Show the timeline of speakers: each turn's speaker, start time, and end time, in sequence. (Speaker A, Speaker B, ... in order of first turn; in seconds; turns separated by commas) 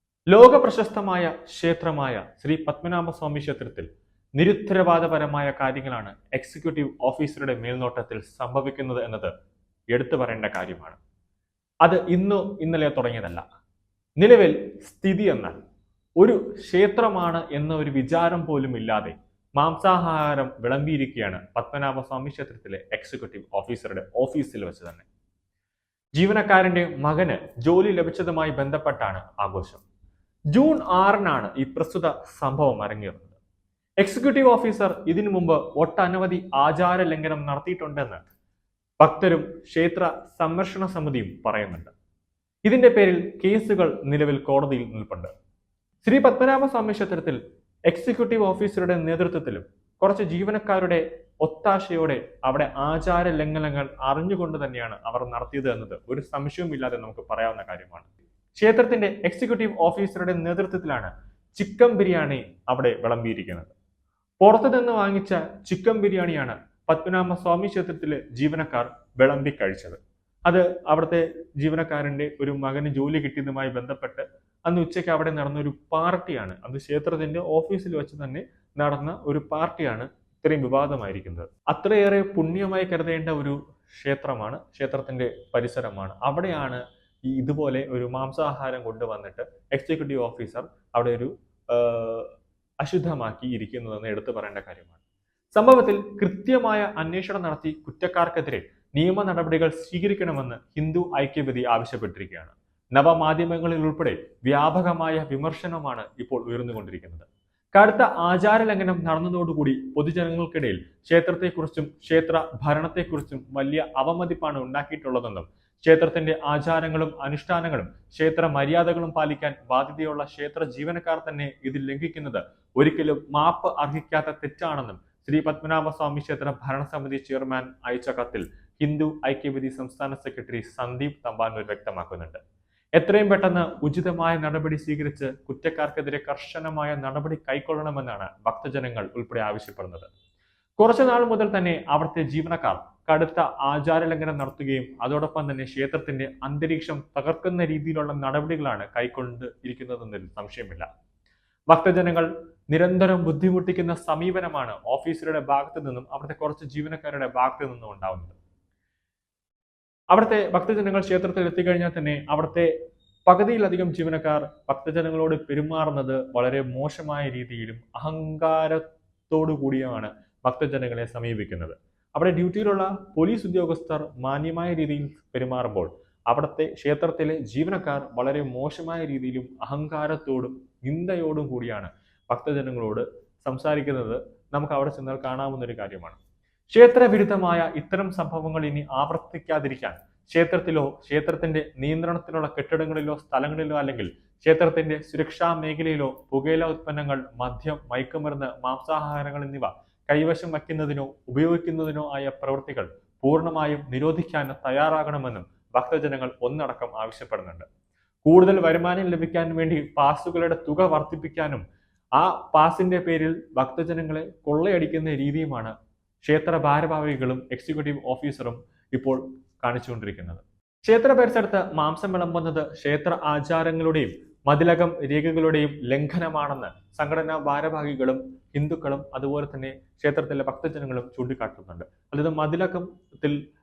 Speaker A: 0.3-9.3, Speaker A: 9.9-11.0, Speaker A: 11.8-13.4, Speaker A: 14.2-15.6, Speaker A: 16.2-25.1, Speaker A: 26.2-29.8, Speaker A: 30.5-33.4, Speaker A: 34.0-38.2, Speaker A: 39.0-41.9, Speaker A: 42.6-45.3, Speaker A: 46.0-63.7, Speaker A: 64.4-95.0, Speaker A: 95.6-132.4, Speaker A: 133.0-140.1, Speaker A: 140.8-150.9, Speaker A: 151.7-158.3, Speaker A: 160.1-162.7, Speaker A: 163.3-186.2, Speaker A: 186.7-207.7, Speaker A: 208.2-211.6, Speaker A: 212.2-233.4